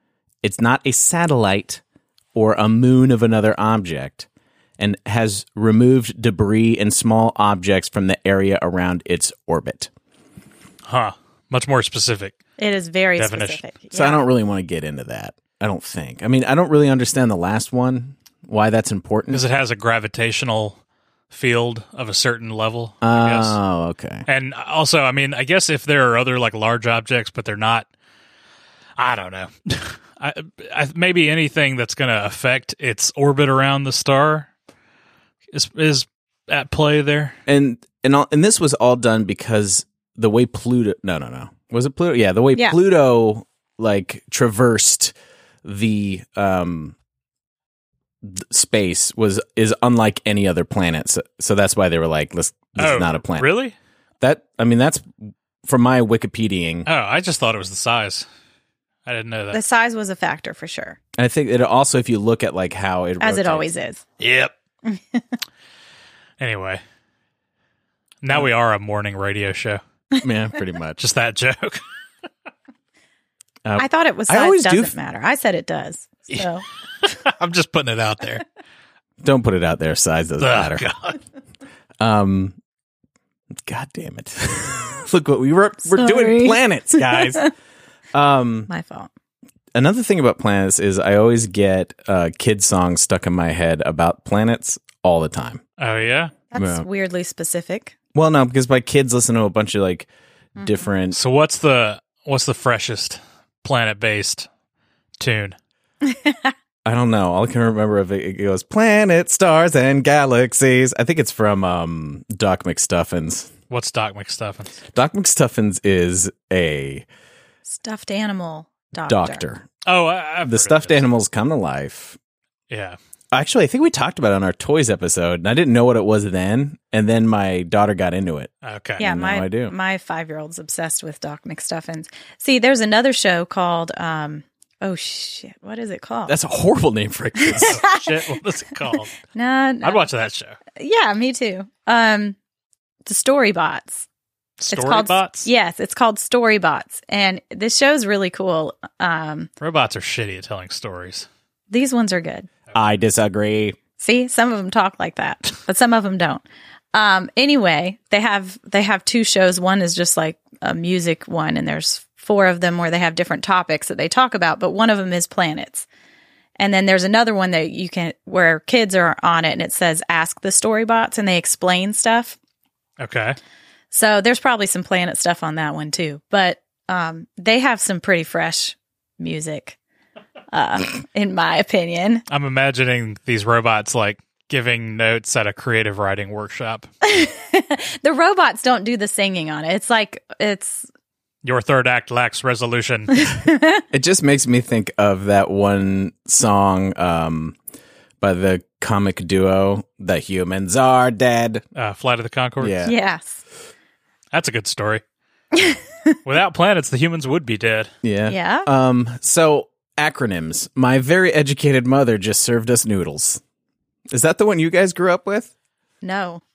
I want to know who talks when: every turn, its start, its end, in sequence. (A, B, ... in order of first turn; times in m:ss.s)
0:00.4-0:01.8 A
0:02.3-0:04.3 A
0:04.8-0:09.9 A
0:10.9-0:12.4 B
0:12.6-0:14.2 C
0:13.2-0:13.6 B
0:13.9-0:19.4 A
0:19.3-0:20.8 B
0:21.3-0:23.6 B
0:23.0-0:24.3 A
0:24.3-0:27.9 B
0:29.0-0:34.5 B
0:35.5-0:37.4 B
0:37.5-0:47.0 A
0:48.2-0:53.5 A
0:52.8-0:53.8 B
0:54.2-0:55.1 A
0:55.6-0:56.9 A
0:56.9-0:58.3 B
0:59.1-0:59.6 B
0:59.5-1:01.0 C
1:01.2-1:03.7 A
1:03.2-1:04.0 C
1:04.2-1:04.6 B
1:04.9-1:05.2 C
1:06.4-1:06.8 B
1:08.2-1:09.8 B
1:10.2-1:11.0 A
1:11.0-1:11.8 B
1:13.6-1:14.9 A
1:13.8-1:16.6 C
1:17.0-1:18.4 B
1:19.2-1:20.8 A
1:20.4-1:21.2 B
1:22.0-1:22.6 A
1:23.5-1:27.5 A
1:25.9-1:27.5 C
1:28.1-1:28.7 A
1:28.7-1:29.1 C
1:29.7-1:35.6 A
1:35.8-1:36.3 B
1:36.5-1:38.0 C
1:36.6-1:36.9 A
1:38.2-1:41.2 A
1:40.6-1:40.9 C
1:41.1-1:44.5 B
1:45.2-1:45.6 B
1:46.0-1:46.5 C
1:46.8-1:53.5 A
1:53.7-1:54.8 B
1:54.9-1:57.1 A
1:57.7-1:59.4 C
1:59.1-1:59.7 A
1:59.8-2:01.0 B
2:00.4-2:02.2 A
2:02.7-2:03.0 B
2:03.3-2:09.7 A
2:08.6-2:09.0 B
2:09.0-2:16.3 C
2:16.3-2:17.8 A
2:17.4-2:18.2 C
2:17.6-2:19.1 B
2:19.2-2:20.1 C
2:19.8-2:20.6 B
2:20.8-2:22.4 C
2:23.1-2:24.1 C
2:24.6-2:25.5 B
2:24.7-2:29.5 C
2:29.6-2:31.3 B
2:31.7-2:32.5 C
2:32.7-2:33.8 A
2:34.0-2:36.4 C
2:36.9-2:45.9 C
2:46.6-2:52.4 C
2:53.0-2:53.4 B
2:53.9-2:59.8 C
3:00.5-3:02.2 C
3:02.3-3:06.9 B
3:07.0-3:10.9 C
3:11.4-3:13.3 B
3:13.2-3:13.8 C
3:13.9-3:17.6 A
3:18.2-3:21.6 A
3:21.8-3:22.9 B
3:22.6-3:23.0 A
3:22.8-3:23.4 C
3:24.3-3:25.0 B
3:25.5-3:26.2 C
3:26.2-3:27.9 B
3:28.0-3:33.4 A
3:28.3-3:28.7 C
3:34.1-3:35.5 A
3:36.0-3:36.4 C